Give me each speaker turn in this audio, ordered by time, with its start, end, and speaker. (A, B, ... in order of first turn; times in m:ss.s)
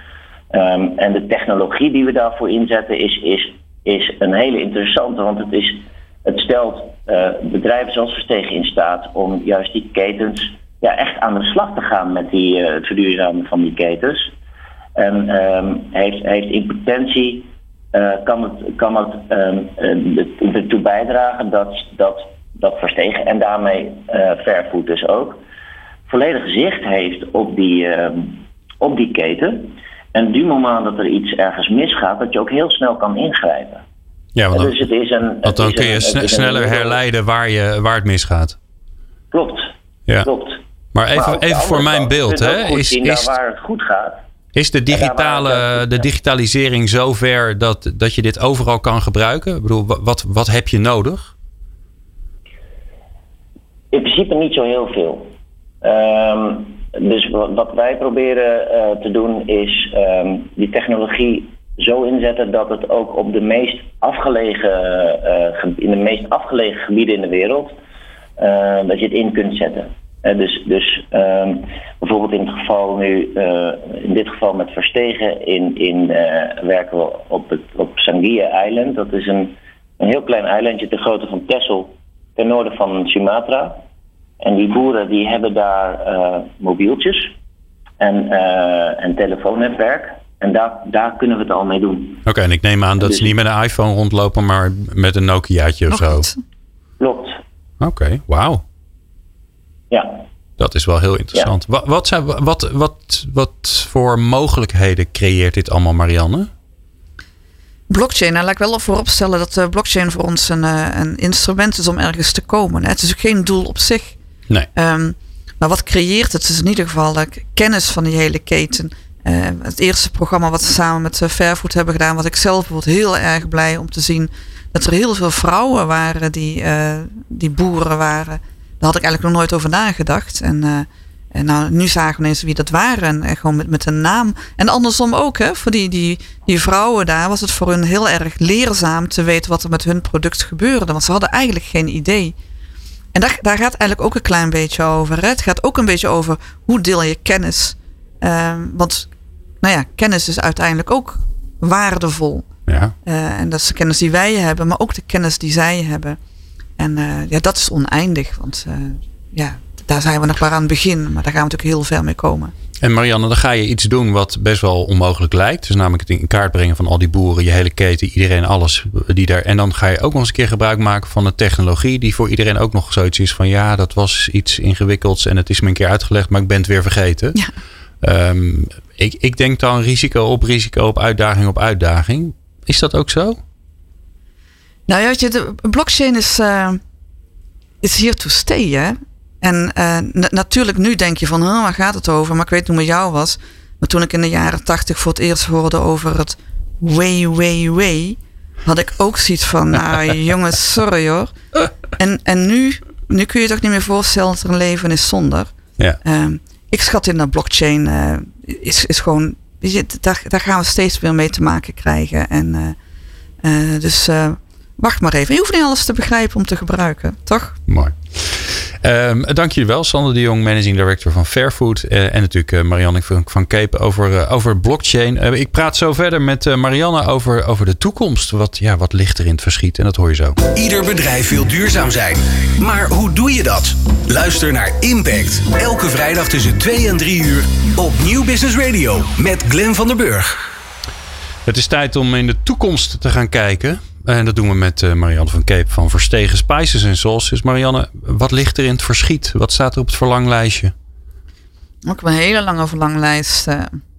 0:00.5-0:14.3 A
0:15.0-0:25.4 A
0:26.1-0:33.8 A
0:34.3-0:34.8 B
0:34.5-0:37.0 A
0:35.4-0:38.6 B
0:39.3-0:40.6 A
0:40.9-0:43.3 B
0:41.1-0:44.2 A
0:44.5-0:51.3 B
0:44.9-0:46.0 A
0:53.9-0:55.3 A
0:55.8-1:07.8 A
1:08.4-1:23.8 A
1:24.4-1:27.3 A
1:28.0-1:32.2 A
1:32.2-1:36.3 B
1:33.0-1:33.3 A
1:35.9-1:36.4 C
1:37.0-1:37.4 A
1:37.8-1:38.6 B
1:39.9-1:40.2 A
1:40.6-1:46.5 B
1:47.9-1:54.2 C
1:54.7-2:22.3 C
2:23.1-2:29.1 C
2:29.6-2:32.5 C
2:32.7-2:32.9 B
2:33.0-2:36.2 C
2:36.8-2:42.5 C
2:42.8-2:57.4 B
2:58.0-3:03.4 B
3:04.9-3:06.8 C
3:07.8-3:21.3 C
3:22.0-3:32.8 C
3:33.4-3:37.6 C
3:37.7-3:50.4 B
3:50.5-4:00.4 D
4:01.4-4:10.7 B
4:11.8-4:13.8 C